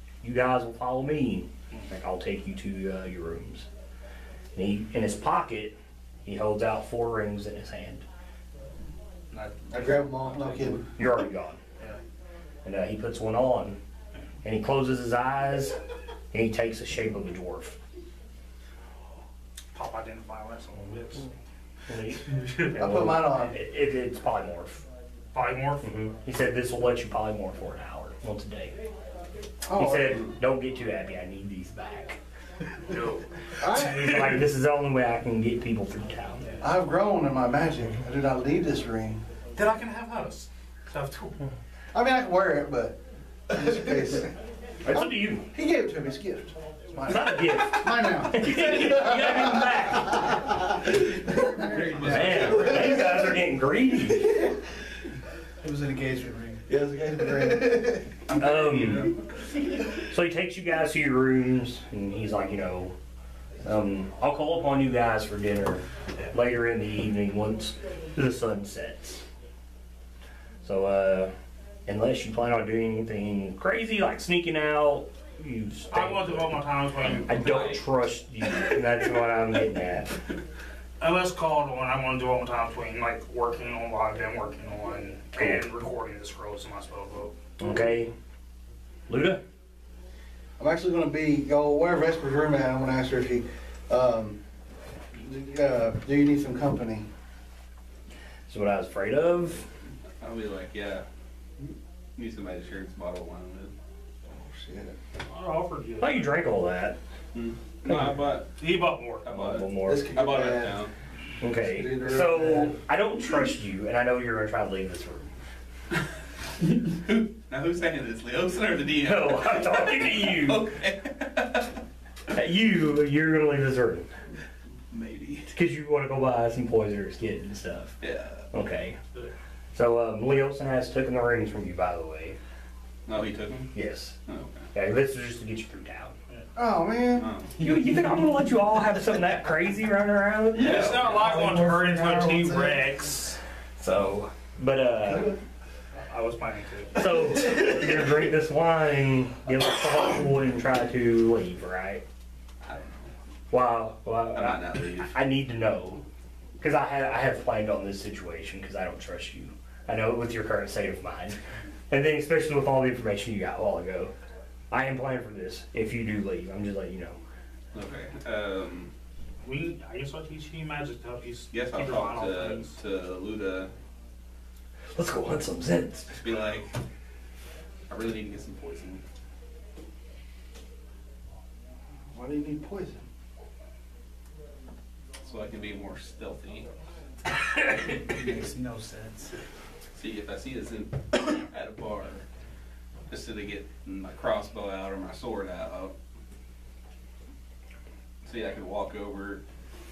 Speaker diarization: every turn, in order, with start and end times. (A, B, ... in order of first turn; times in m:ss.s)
0:00.2-0:03.7 A
0:04.6-0:08.1 A
0:09.3-0:10.7 B
0:09.7-0:10.9 C
0:11.0-0:11.6 A
0:12.6-0:13.8 A
0:14.4-0:15.8 A
0:16.3-0:17.8 A
0:19.7-0:21.3 B
0:21.9-0:24.8 A
0:22.2-0:22.8 B
0:22.8-0:23.6 C
0:25.3-0:25.9 B
0:25.8-0:28.8 A
0:29.6-0:30.3 C
0:29.8-0:32.2 A
0:32.9-0:34.4 B
0:33.6-0:34.4 C
0:33.7-0:36.5 A
0:36.6-0:39.2 C
0:39.6-0:41.4 B
0:41.9-0:43.0 C
0:43.5-0:44.3 C
0:44.8-0:45.5 A
0:44.9-0:53.2 C
0:47.1-0:50.5 A
0:51.4-0:52.8 D
0:51.7-0:53.1 E
0:52.0-0:54.5 A
0:55.6-0:56.6 D
0:56.7-0:58.1 C
0:57.3-0:59.1 D
0:58.4-0:59.2 A
0:59.9-1:03.0 A
1:03.6-1:09.2 A
1:10.6-1:11.3 A
1:11.9-1:20.2 A
1:15.9-1:17.8 B
1:17.1-1:17.9 E
1:21.0-1:27.4 B
1:25.4-1:25.6 A
1:27.6-1:28.1 A
1:29.1-1:29.4 A
1:30.6-1:34.4 C
1:35.1-1:37.1 C
1:38.5-1:39.7 A
1:40.2-1:41.0 E
1:42.2-1:43.7 E
1:44.4-1:45.0 C
1:45.3-1:46.3 B
1:46.0-1:47.0 A
1:47.3-1:48.5 E
1:47.9-1:48.1 A
1:48.6-1:49.3 B
1:49.2-1:50.9 E
1:49.3-1:50.1 A
1:49.8-1:50.8 C
1:51.4-1:55.3 A
1:51.6-1:52.8 C
1:56.8-2:01.7 E
1:59.0-2:00.7 A
2:02.3-2:04.1 A
2:04.9-2:05.5 E
2:05.5-2:08.0 A
2:08.0-2:08.5 E
2:08.5-2:09.0 A
2:09.7-2:12.4 A
2:13.1-2:13.7 E
2:13.7-2:14.2 A
2:14.3-2:14.7 E
2:14.7-2:16.2 A
2:16.6-2:17.3 C
2:17.2-2:17.6 E
2:17.6-2:21.1 A
2:20.5-2:21.5 E
2:20.6-2:23.4 B
2:21.2-2:23.0 D
2:23.8-2:25.3 A
2:25.1-2:25.4 C
2:26.1-2:27.1 B
2:27.0-2:32.0 A
2:32.6-2:33.0 E
2:33.5-2:36.0 A
2:34.3-2:35.1 E
2:36.6-2:41.4 A
2:41.9-2:44.1 A
2:44.7-2:47.2 A
2:47.7-2:48.9 E
2:49.4-2:52.8 B
2:51.5-2:53.7 E
2:55.0-2:56.2 A
2:56.1-2:56.7 E
2:57.9-2:59.0 E
3:02.1-3:03.0 C
3:05.2-3:06.7 E
3:07.9-3:09.4 D
3:10.0-3:12.2 E
3:13.1-3:15.9 E
3:18.2-3:19.4 E